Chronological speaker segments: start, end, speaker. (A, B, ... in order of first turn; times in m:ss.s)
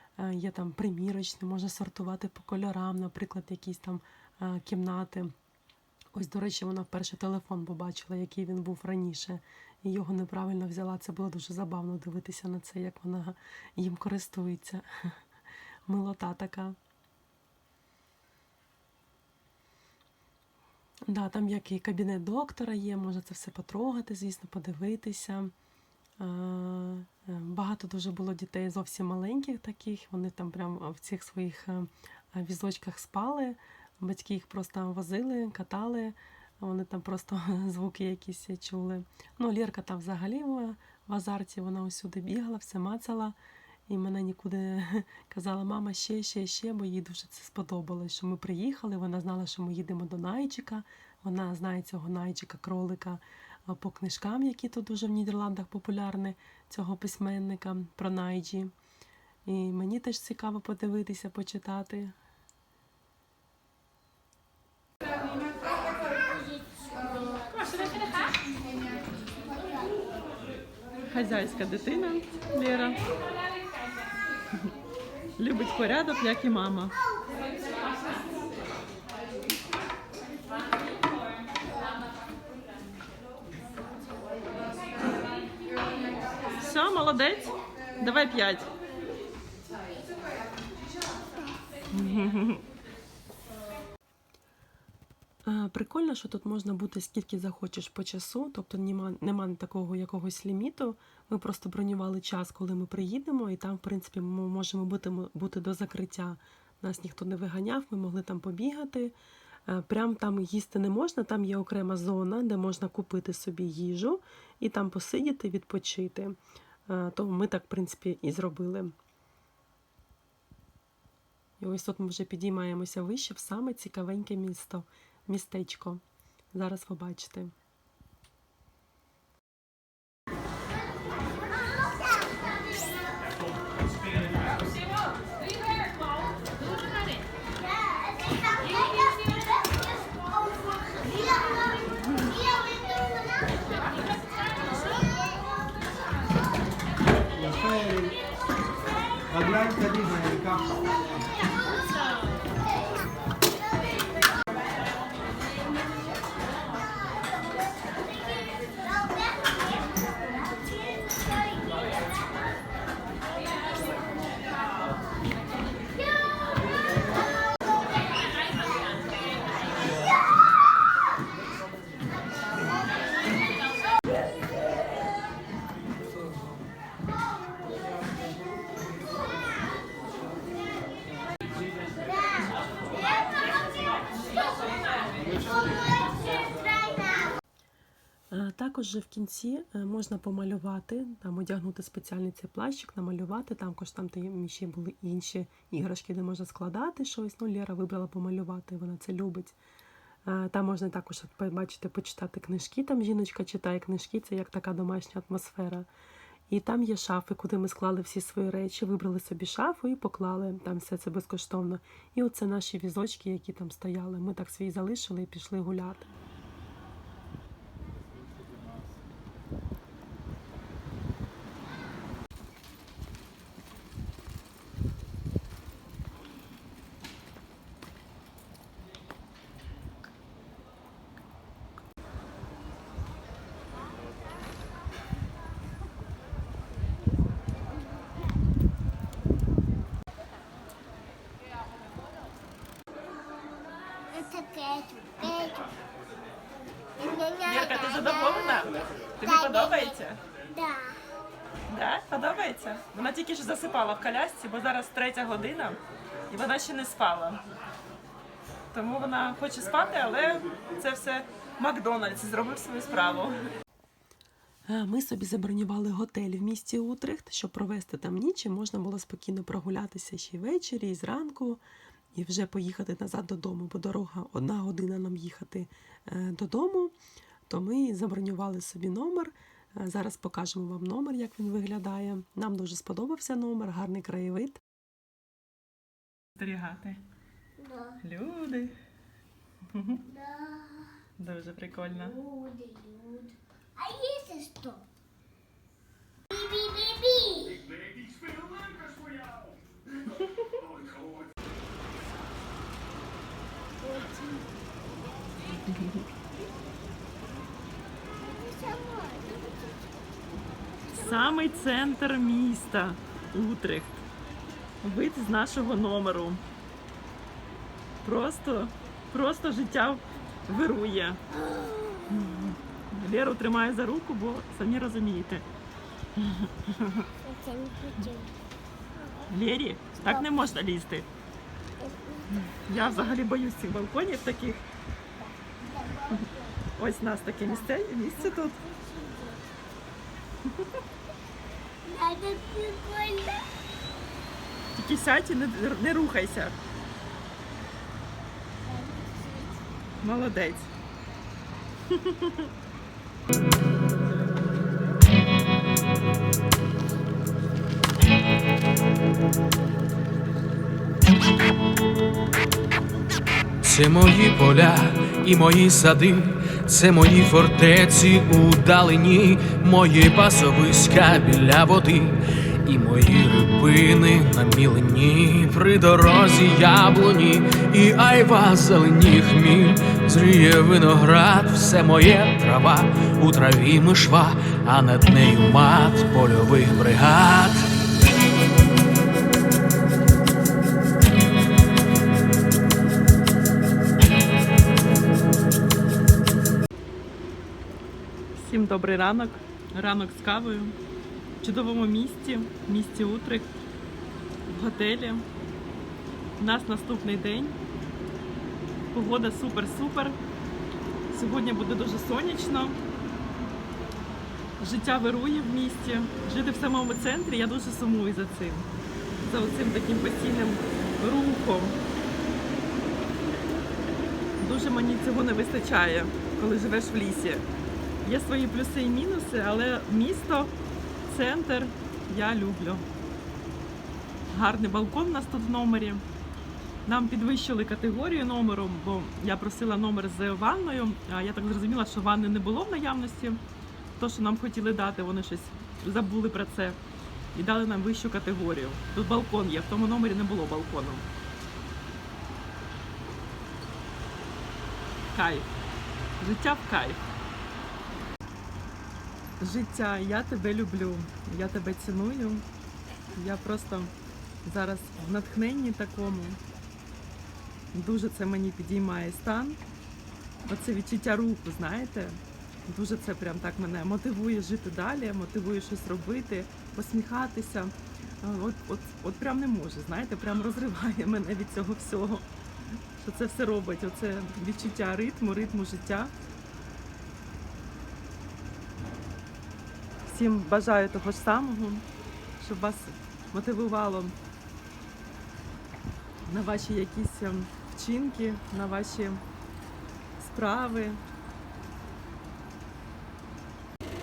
0:00.2-0:05.3 A
0:06.1-0:15.2 A
0:15.9-0:16.8 A
0:21.1-0:25.5 A
0:26.2-0:43.4 A
0:43.9-0:58.7 A
0:59.4-1:02.1 A
1:11.1-1:13.0 B
1:15.4-1:16.9 B
1:26.5-1:28.7 B
1:31.9-1:32.6 B
1:35.4-1:49.1 A
1:49.7-1:58.9 A
2:01.6-2:06.0 A
2:06.5-2:07.5 A
2:17.6-2:21.6 C
2:22.2-2:24.0 C
2:24.9-2:25.2 C
2:27.4-2:28.1 D
2:29.3-2:30.6 D
2:40.4-2:40.6 C
3:08.3-3:19.6 A
3:20.2-3:25.9 A
3:26.5-3:36.1 A
4:04.1-4:05.7 C
4:07.0-4:08.2 C
4:07.4-4:10.2 B
4:09.2-4:09.9 C
4:10.5-4:11.0 C
4:11.7-4:17.4 B
4:18.7-4:23.4 B
4:24.7-4:31.6 A
4:32.1-4:36.9 A
4:37.5-4:44.6 A
4:46.4-4:47.0 B
4:47.6-4:48.0 C
4:48.0-4:48.8 B
4:49.7-4:50.0 B
4:50.1-4:50.9 C
4:51.2-4:52.2 B
4:51.9-4:54.9 C
4:56.3-4:57.6 C
5:03.8-5:04.6 C
5:05.7-5:06.0 B
5:08.2-5:09.8 C
5:10.9-5:11.1 C
5:10.9-5:14.0 B
5:14.8-5:16.4 B
5:18.0-5:21.2 B
5:21.5-5:22.0 C
5:22.1-5:25.4 B
5:26.2-5:27.1 B
5:27.2-5:28.3 C
5:29.3-5:31.1 B
5:31.8-5:33.1 C
5:32.4-5:34.6 B
5:35.2-5:36.6 C
5:36.8-5:38.6 B
5:38.2-5:39.4 C
5:41.8-5:43.5 C
5:44.8-5:46.6 B
5:48.6-5:49.6 C
5:50.0-5:50.7 B
5:51.9-5:52.5 B
6:03.6-6:27.7 E
6:38.4-6:40.8 B
6:41.4-6:43.5 B
6:44.5-6:45.2 B
6:46.4-6:47.6 B
6:48.9-6:50.2 B
6:51.1-6:52.8 B
6:54.6-6:58.7 B
6:59.2-7:01.8 B
7:04.4-7:07.4 B
7:08.0-7:10.5 B
7:11.1-7:12.9 B
7:14.3-7:16.0 B
7:16.9-7:23.4 B
7:24.0-7:26.8 B
7:27.3-7:31.1 B
7:35.1-7:35.5 B
7:36.2-7:37.0 B
7:39.4-7:42.4 B
7:43.1-7:43.9 B
7:44.4-7:46.4 B
7:47.7-7:49.6 B
7:50.5-8:02.3 B
8:03.0-8:06.1 B
8:10.0-8:11.9 B
8:12.4-8:14.2 B
8:16.2-8:19.2 B
8:20.2-8:21.0 B